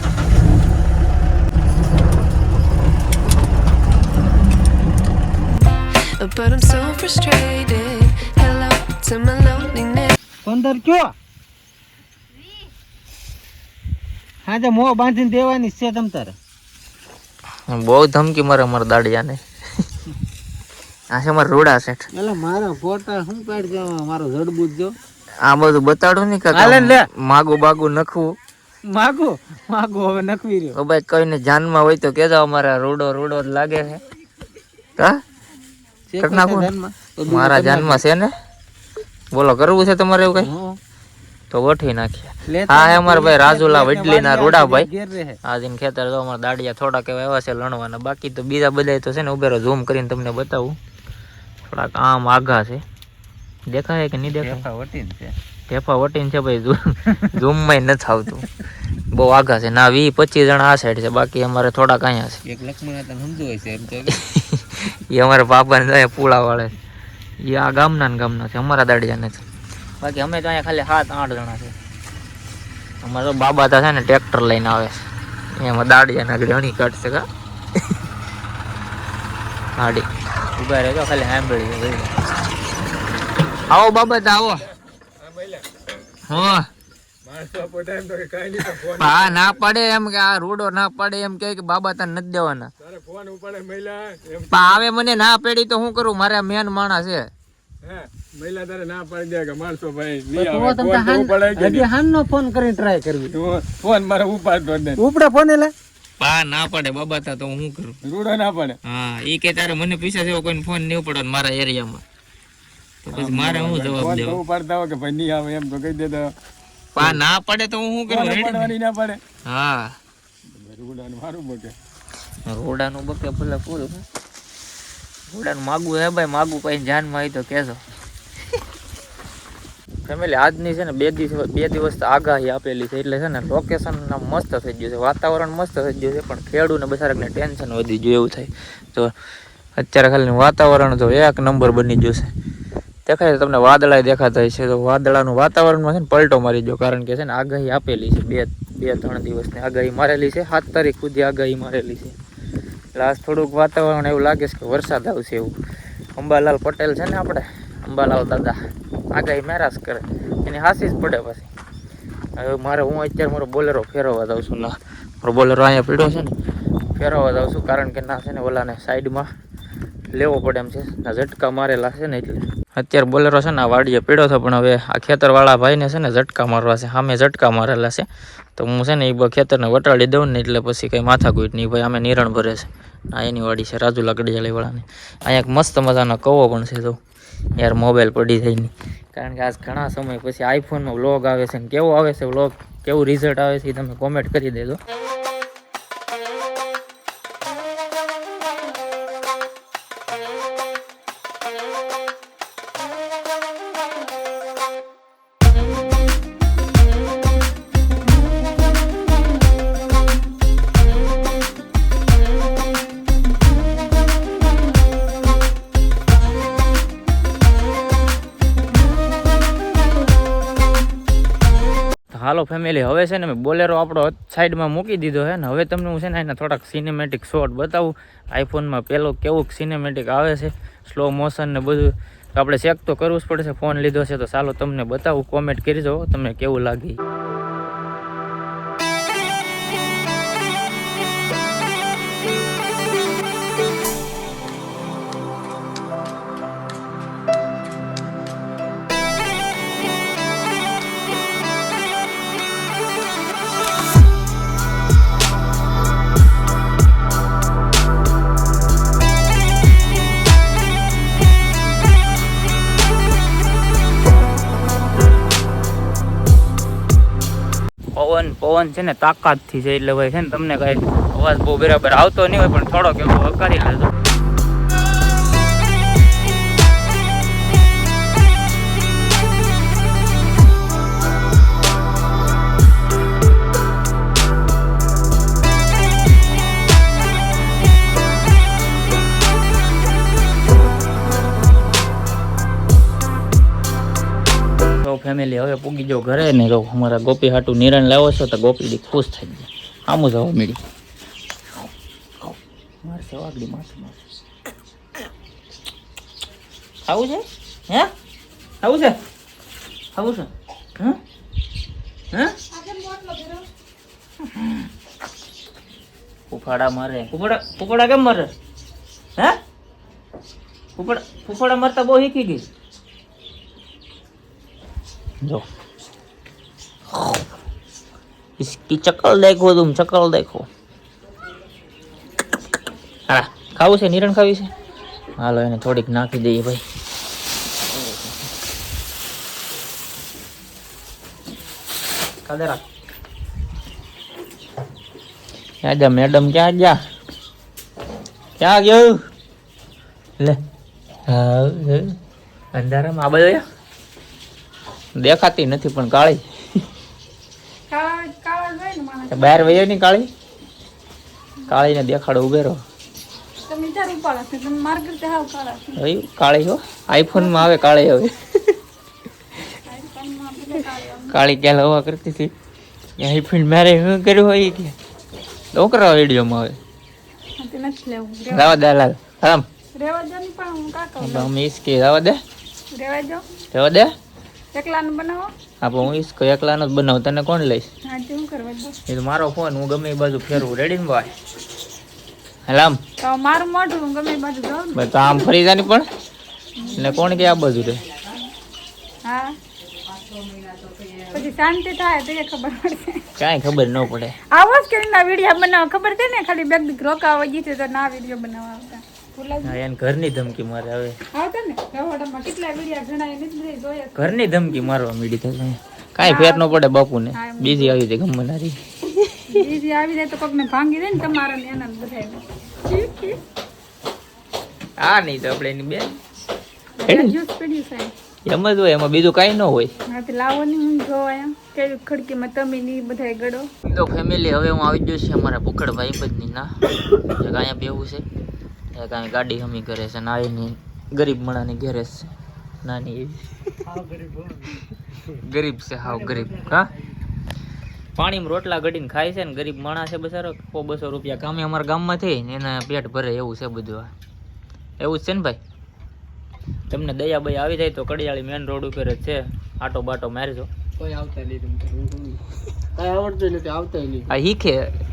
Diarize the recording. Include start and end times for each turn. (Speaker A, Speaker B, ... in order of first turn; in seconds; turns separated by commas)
Speaker A: 6.2-10.2, Speaker B: 10.4-11.1, Speaker B: 14.4-16.4, Speaker C: 17.7-19.4, Speaker C: 21.1-22.1, Speaker B: 22.1-25.0, Speaker C: 25.4-28.4, Speaker B: 26.5-27.1, Speaker B: 28.9-30.8, Speaker C: 30.7-34.0, Speaker B: 36.1-38.0, Speaker C: 36.2-36.7, Speaker C: 37.3-38.3, Speaker C: 39.3-40.5, Speaker B: 40.4-40.8, Speaker C: 41.5-44.9, Speaker B: 42.5-45.4, Speaker C: 45.4-50.8, Speaker C: 51.7-52.8, Speaker C: 53.7-54.7, Speaker B: 54.3-55.3, Speaker C: 55.7-58.5, Speaker C: 59.1-62.4, Speaker B: 62.5-64.2, Speaker C: 64.1-66.8, Speaker C: 67.4-69.4, Speaker C: 70.0-71.7, Speaker C: 73.0-75.0, Speaker C: 75.6-77.3, Speaker C: 79.8-82.1, Speaker C: 83.7-84.7, Speaker D: 85.2-85.7, Speaker C: 86.3-86.7, Speaker D: 87.2-89.6, Speaker C: 88.7-92.7, Speaker D: 92.8-94.8, Speaker C: 94.5-97.3, Speaker D: 97.8-101.9, Speaker B: 100.3-103.3, Speaker D: 103.3-105.0, Speaker B: 105.0-105.7, Speaker C: 106.2-108.0, Speaker D: 108.0-108.8, Speaker C: 108.8-112.0, Speaker C: 113.0-114.4, Speaker D: 113.1-116.3, Speaker C: 117.0-118.7, Speaker D: 118.1-119.2, Speaker C: 119.5-120.0, Speaker D: 120.5-121.7, Speaker C: 122.5-124.0, Speaker C: 125.3-127.8, Speaker C: 130.1-139.1, Speaker C: 139.8-142.3, Speaker C: 143.1-152.2, Speaker C: 152.9-155.6, Speaker C: 156.2-158.6, Speaker C: 159.1-161.5, Speaker C: 162.4-166.3, Speaker C: 166.9-169.3, Speaker C: 170.1-187.0, Speaker C: 187.6-194.8, Speaker C: 222.1-237.0, Speaker C: 267.9-273.9, Speaker C: 294.8-300.6, Speaker C: 302.2-304.0, Speaker C: 306.9-307.9, Speaker C: 308.6-309.0, Speaker C: 309.9-310.3, Speaker E: 312.5-313.5, Speaker C: 314.4-314.7, Speaker C: 316.3-318.3, Speaker C: 320.8-322.5, Speaker C: 326.9-327.2, Speaker C: 328.4-330.5, Speaker C: 333.1-334.5, Speaker C: 335.2-336.6, Speaker C: 342.2-342.6, Speaker C: 345.6-346.8, Speaker C: 348.4-349.0, Speaker C: 351.1-351.9, Speaker C: 352.5-353.4, Speaker C: 355.0-356.2, Speaker E: 357.7-359.6, Speaker C: 359.1-360.1, Speaker E: 361.5-361.7, Speaker C: 361.5-362.6, Speaker E: 363.5-365.8, Speaker C: 365.8-368.4, Speaker E: 367.1-367.6, Speaker E: 369.6-371.2, Speaker C: 371.1-372.3, Speaker C: 373.0-374.8, Speaker C: 375.5-376.6, Speaker E: 377.4-378.6, Speaker C: 378.3-379.5, Speaker E: 379.8-381.3, Speaker C: 381.0-382.2, Speaker E: 382.7-383.2, Speaker C: 383.5-383.9, Speaker E: 384.5-385.3, Speaker C: 385.6-387.7, Speaker E: 387.9-388.8, Speaker C: 388.9-391.1, Speaker C: 392.5-392.8, Speaker E: 393.0-395.3, Speaker C: 394.8-395.9, Speaker E: 396.6-397.4, Speaker C: 396.7-397.8, Speaker E: 399.1-399.4, Speaker E: 401.0-403.1, Speaker C: 403.2-404.2, Speaker E: 404.3-409.6, Speaker C: 409.4-411.0, Speaker E: 411.1-414.3, Speaker C: 414.0-418.6, Speaker E: 416.0-416.6, Speaker E: 417.1-417.8, Speaker E: 419.3-423.2, Speaker C: 424.8-425.9, Speaker E: 426.8-427.9, Speaker C: 426.9-427.1, Speaker C: 428.3-429.7, Speaker E: 429.9-433.5, Speaker C: 433.6-436.5, Speaker C: 437.1-438.1, Speaker C: 438.7-442.1, Speaker C: 442.6-443.2, Speaker B: 443.7-444.6, Speaker C: 445.0-446.7, Speaker B: 445.9-446.5, Speaker C: 448.0-453.9, Speaker C: 454.8-455.4, Speaker C: 456.7-460.5, Speaker B: 460.8-462.2, Speaker B: 462.8-464.1, Speaker C: 464.1-464.7